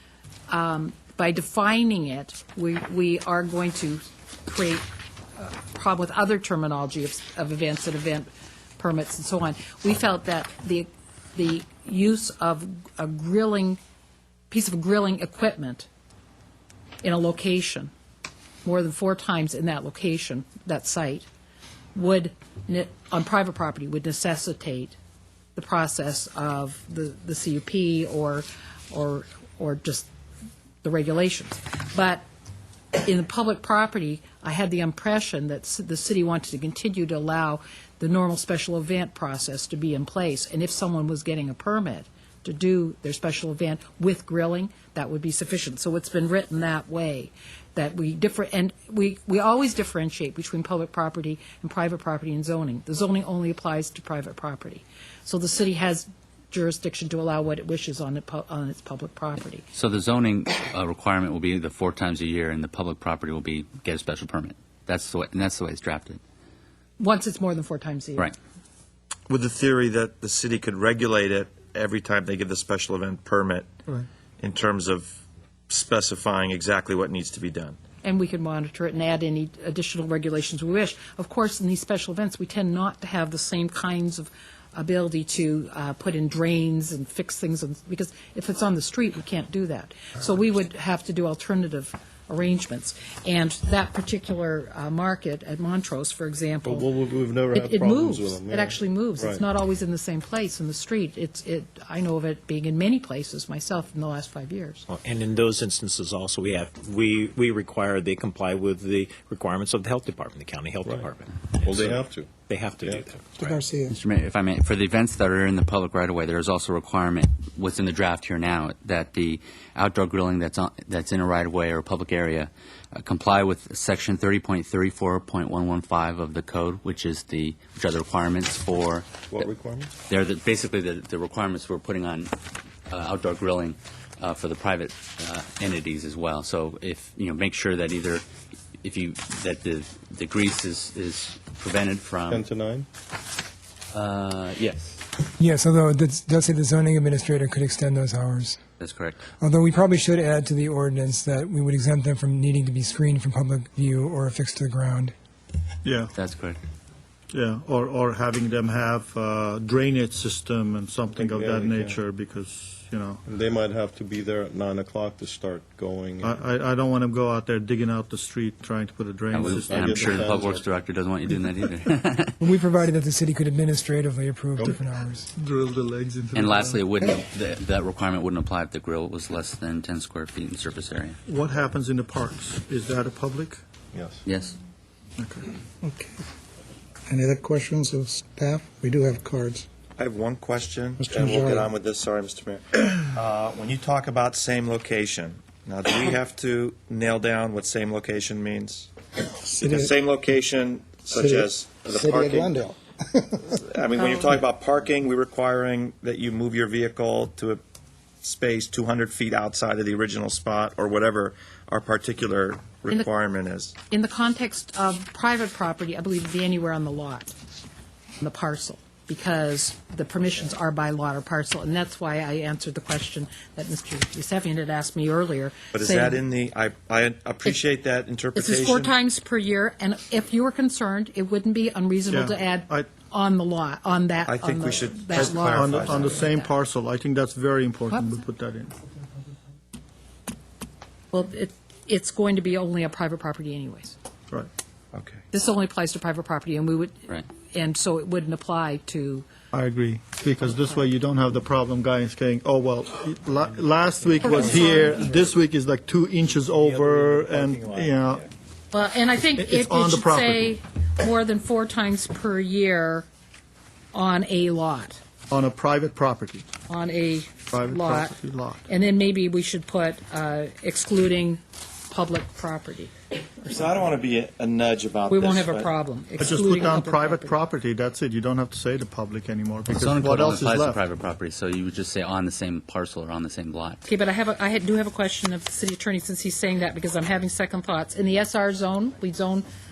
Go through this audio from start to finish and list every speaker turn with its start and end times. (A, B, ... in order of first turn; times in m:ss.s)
0:00.5-0:13.8 A
0:14.5-0:15.9 A
0:17.0-0:17.9 A
0:18.6-0:21.3 A
0:21.9-0:25.0 A
0:25.5-0:30.1 A
0:30.8-0:32.2 A
0:33.0-0:59.6 A
0:59.7-1:06.2 B
1:07.0-1:08.3 A
1:09.3-1:13.7 C
1:14.4-1:15.2 C
1:15.7-1:17.8 C
1:18.0-1:36.9 A
1:36.6-1:39.4 D
1:37.5-1:44.9 A
1:44.9-1:53.6 E
1:50.8-1:51.1 D
1:51.6-1:53.1 D
1:53.8-2:09.4 B
2:09.3-2:09.9 D
2:10.1-2:12.3 B
2:12.9-2:18.2 B
2:18.8-2:22.4 B
2:22.3-2:22.9 D
2:23.9-2:25.0 B
2:25.4-2:28.6 F
2:28.8-2:29.3 B
2:29.4-2:35.1 F
2:35.8-2:36.1 G
2:36.2-2:36.6 B
2:37.3-2:43.2 G
2:41.1-2:42.0 D
2:43.2-2:46.4 D
2:46.2-2:50.2 G
2:49.3-2:52.3 B
2:49.4-2:50.6 D
2:52.4-2:55.3 F
2:55.3-2:56.8 G
2:56.3-3:01.2 B
3:01.3-3:03.6 G
3:03.9-3:04.2 D
3:04.2-3:04.6 B
3:05.2-3:05.4 G
3:05.8-3:06.2 H
3:07.1-3:09.6 H
3:10.0-3:18.9 C
3:11.0-3:11.7 H
3:19.3-3:19.9 H
3:19.6-3:22.6 C
3:21.1-3:23.4 H
3:23.5-3:27.6 C
3:24.0-3:24.3 A
3:28.2-3:33.7 C
3:33.9-3:37.3 A
3:38.2-3:46.2 A
3:45.7-3:48.9 C
3:48.3-3:56.5 A
3:52.1-3:52.9 G
3:54.3-3:56.3 C
3:55.1-3:58.7 G
3:57.9-3:58.2 A
4:01.1-4:03.9 A
4:04.9-4:05.2 C
4:05.3-4:09.3 A
4:09.5-4:18.2 G
4:14.2-4:15.2 A
4:14.2-4:15.3 E
4:16.5-4:17.9 E
4:18.7-4:23.1 A
4:19.4-4:20.5 G
4:23.9-4:25.0 A
4:25.3-4:26.4 G
4:26.7-4:28.2 A
4:27.5-4:28.6 G
4:28.7-4:32.9 A
4:33.4-4:35.7 C
4:35.1-4:37.4 A
4:36.2-4:40.8 G
4:39.7-4:43.8 B
4:43.8-4:49.4 A